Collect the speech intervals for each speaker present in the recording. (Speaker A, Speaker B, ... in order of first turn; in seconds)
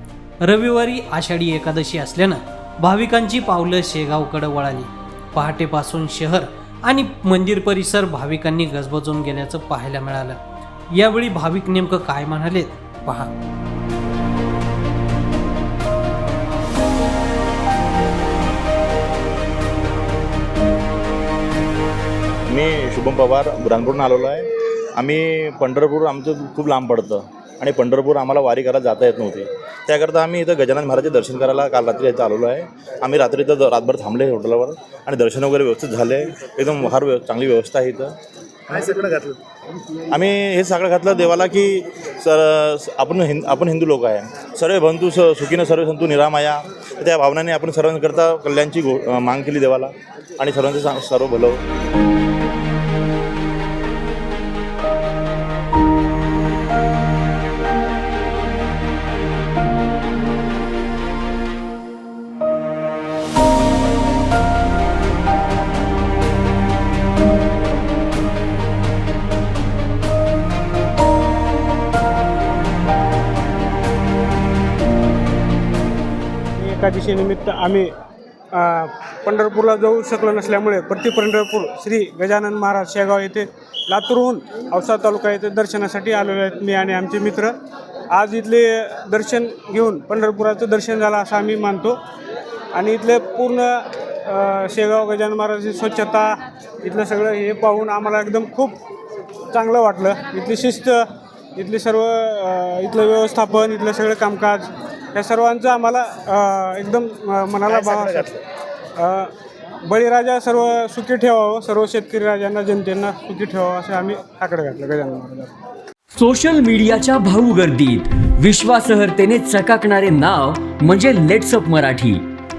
Speaker A: 0.4-10.4, 10.9-13.3
Speaker B: 22.5-38.1, 38.7-39.4, 40.1-51.6, 107.7-108.4
Speaker C: 76.6-77.9, 78.5-87.5, 88.1-92.0, 92.8-93.7, 94.3-96.3, 96.8-98.8, 99.5-101.0, 101.6-104.6, 105.2-108.3, 109.0-109.3, 109.9-115.5
Speaker D: 116.2-122.2